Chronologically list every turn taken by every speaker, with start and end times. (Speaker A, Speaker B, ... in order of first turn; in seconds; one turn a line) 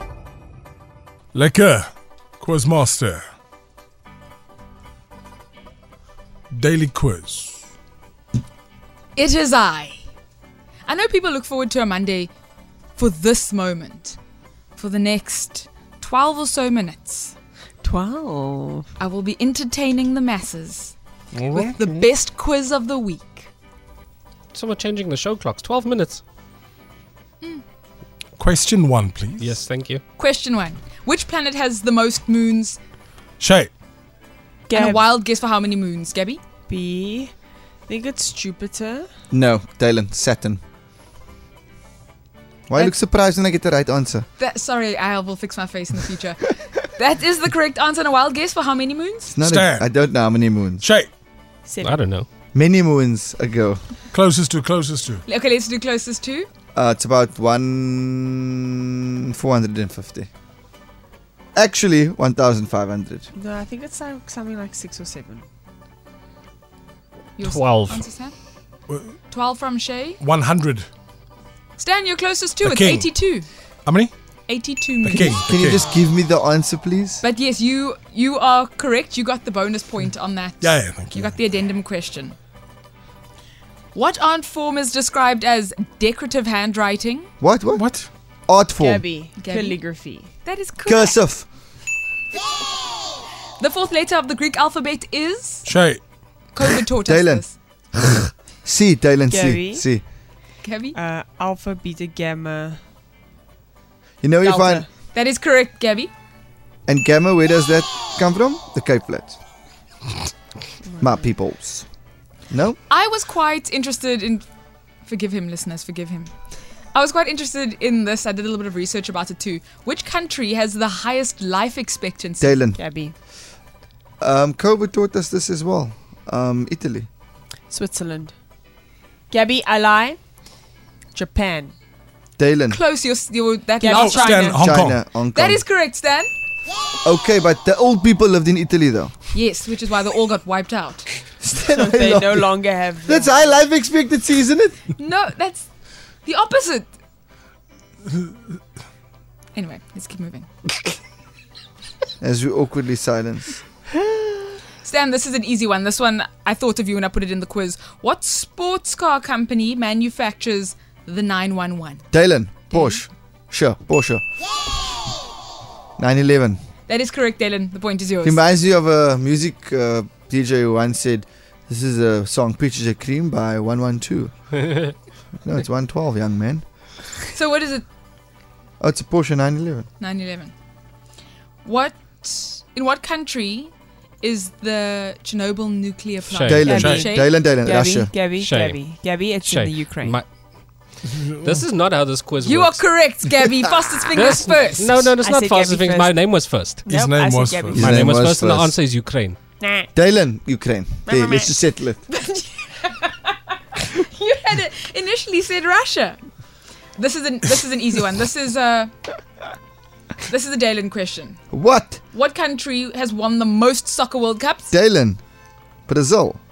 Speaker A: 1.3-3.2
Speaker A: 6.5-7.6
Speaker B: 9.2-10.0
Speaker B: 10.8-12.3
Speaker B: 12.9-14.2
Speaker B: 14.8-17.3
Speaker C: 17.8-18.9
Speaker B: 19.0-20.9
Speaker B: 21.5-23.5
Speaker D: 24.5-26.2
Speaker A: 28.4-29.6
Speaker D: 29.4-30.0
Speaker B: 30.2-32.8
Speaker A: 33.4-33.7
Speaker C: 34.7-35.1
Speaker B: 34.7-36.4
Speaker C: 36.7-37.3
Speaker C: 37.9-39.1
Speaker E: 39.3-40.6
Speaker E: 42.7-44.3
Speaker B: 44.4-49.4
Speaker E: 49.4-50.8
Speaker A: 49.4-49.9
Speaker A: 50.8-51.1
Speaker C: 51.6-52.0
Speaker D: 51.8-52.3
Speaker E: 52.5-53.8
Speaker A: 54.1-55.2
Speaker B: 55.2-56.5
Speaker E: 56.7-58.8
Speaker E: 59.3-60.3
Speaker E: 61.5-63.3
Speaker C: 63.3-65.5
Speaker B: 67.4-68.3
Speaker D: 67.4-68.0
Speaker A: 68.9-69.1
Speaker B: 69.3-70.2
Speaker A: 70.2-70.9
Speaker B: 71.8-73.5
Speaker A: 72.6-73.3
Speaker A: 73.8-74.1
Speaker B: 74.5-75.4
Speaker A: 75.0-75.9
Speaker E: 75.4-77.2
Speaker B: 77.2-82.4
Speaker A: 80.6-81.3
Speaker B: 83.9-87.3
Speaker E: 87.4-87.8
Speaker A: 87.7-88.1
Speaker E: 88.5-89.0
Speaker C: 88.8-90.3
Speaker B: 89.4-89.8
Speaker B: 90.4-91.2
Speaker E: 90.8-91.5
Speaker B: 93.6-95.7
Speaker A: 95.6-96.0
Speaker B: 96.5-97.5
Speaker E: 97.0-100.0
Speaker C: 99.3-99.8
Speaker B: 100.6-101.0
Speaker C: 100.9-102.8
Speaker E: 104.2-104.8
Speaker C: 104.4-104.9
Speaker B: 105.1-106.1
Speaker E: 106.9-109.3
Speaker C: 110.8-111.2
Speaker E: 111.0-111.8
Speaker E: 112.5-112.8
Speaker B: 112.9-114.5
Speaker B: 115.0-116.3
Speaker B: 116.9-122.6
Speaker E: 122.4-122.8
Speaker C: 122.8-123.1
Speaker E: 124.2-127.1
Speaker C: 127.7-128.3
Speaker C: 129.3-130.2
Speaker C: 131.1-131.7
Speaker E: 132.4-132.8
Speaker B: 132.7-134.5
Speaker C: 133.8-134.6
Speaker A: 133.9-135.0
Speaker E: 134.5-135.6
Speaker B: 135.3-136.3
Speaker E: 137.0-139.1
Speaker B: 139.3-141.1
Speaker E: 141.4-142.5
Speaker C: 141.8-143.6
Speaker E: 143.0-144.8
Speaker B: 144.9-145.7
Speaker B: 146.2-146.9
Speaker B: 149.5-150.5
Speaker E: 152.2-153.6
Speaker B: 154.8-162.0
Speaker E: 162.1-164.2
Speaker B: 162.7-163.0
Speaker E: 166.0-166.6
Speaker B: 166.9-168.4
Speaker E: 168.2-174.3
Speaker E: 175.4-176.6
Speaker B: 177.3-177.8
Speaker E: 178.8-179.9
Speaker B: 180.0-180.5
Speaker B: 181.6-187.3
Speaker D: 186.3-186.7
Speaker E: 186.4-188.1
Speaker C: 186.7-190.2
Speaker D: 188.4-190.3
Speaker A: 191.1-191.6
Speaker D: 191.4-192.9
Speaker B: 192.4-195.1
Speaker D: 194.1-196.8
Speaker C: 195.2-196.2
Speaker C: 196.8-197.8
Speaker A: 196.9-197.8
Speaker E: 197.7-198.7
Speaker D: 197.7-199.4
Speaker C: 199.6-199.9
Speaker E: 199.9-202.0
Speaker C: 201.1-201.6
Speaker B: 202.1-206.2
Speaker B: 206.9-208.9
Speaker B: 210.2-211.4
Speaker E: 211.5-212.0
Speaker B: 212.1-214.7
Speaker E: 214.7-215.2
Speaker E: 215.9-216.4